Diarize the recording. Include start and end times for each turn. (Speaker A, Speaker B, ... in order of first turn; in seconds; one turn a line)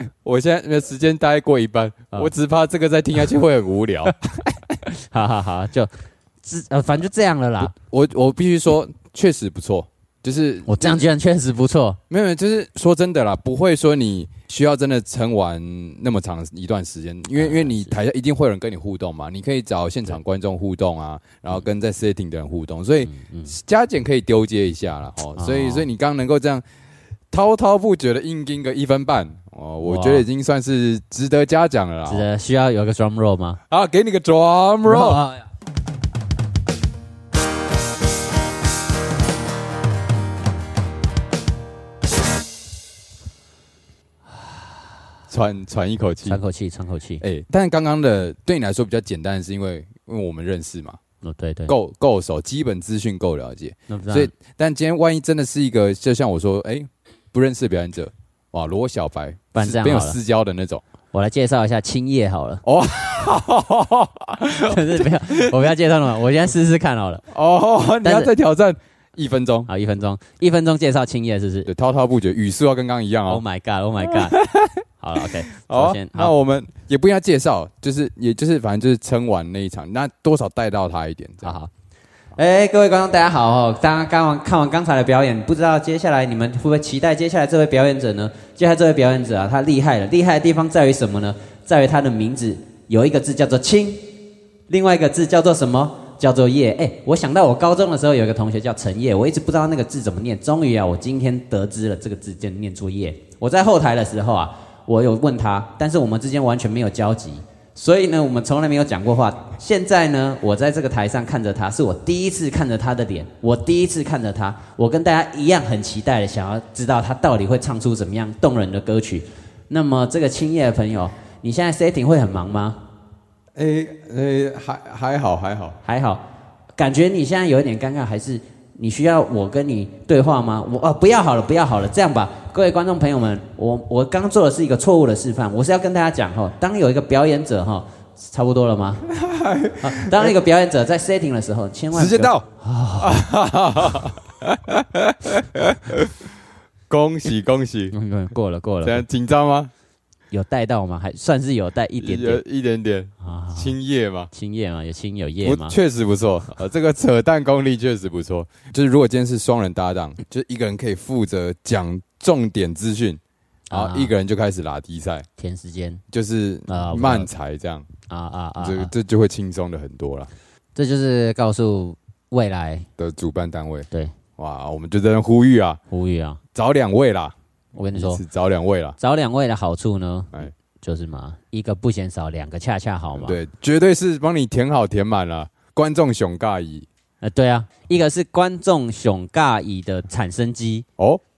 Speaker A: 0.2-4.2
Speaker B: 4.5-5.9
Speaker B: 6.4-7.7
Speaker A: 7.6-11.1
Speaker B: 10.7-12.0
Speaker A: 12.1-26.6
Speaker B: 17.4-17.9
Speaker B: 23.0-23.5
Speaker B: 25.4-25.9
Speaker A: 27.3-32.2
Speaker B: 29.8-30.2
Speaker B: 32.0-33.6
Speaker A: 33.7-35.2
Speaker B: 34.9-35.5
Speaker A: 45.3-46.4
Speaker B: 46.2-47.2
Speaker A: 47.2-51.0
Speaker B: 51.2-51.7
Speaker A: 51.7-60.8
Speaker B: 53.9-54.3
Speaker B: 59.5-60.2
Speaker B: 61.1-62.6
Speaker A: 62.6-65.6
Speaker B: 64.6-67.2
Speaker A: 67.3-69.7
Speaker B: 68.0-68.3
Speaker B: 69.7-71.7
Speaker A: 71.7-73.4
Speaker B: 73.3-74.4
Speaker A: 74.0-81.5
Speaker B: 75.0-76.3
Speaker B: 81.4-81.7
Speaker B: 82.3-94.1
Speaker B: 94.7-122.8
Speaker A: 123.5-125.8
Speaker B: 125.8-126.2
Speaker B: 126.8-139.1
Speaker A: 139.1-140.4
Speaker B: 139.8-143.2
Speaker A: 141.9-142.4
Speaker A: 143.0-146.2
Speaker A: 146.9-147.9
Speaker B: 147.9-149.0
Speaker A: 148.8-149.7
Speaker B: 150.3-152.4
Speaker A: 152.0-154.3
Speaker B: 153.2-153.7
Speaker B: 154.3-155.8
Speaker A: 155.4-163.2
Speaker B: 163.7-164.1
Speaker A: 163.7-165.3
Speaker B: 165.4-166.0
Speaker A: 166.1-167.8
Speaker B: 166.7-167.3
Speaker B: 168.1-168.9
Speaker A: 168.6-170.3
Speaker B: 170.7-172.9
Speaker A: 173.0-175.8
Speaker B: 175.9-176.4
Speaker A: 176.5-177.3
Speaker B: 177.7-178.2
Speaker A: 177.9-179.0
Speaker B: 179.0-183.4
Speaker A: 183.2-186.9
Speaker B: 187.2-190.8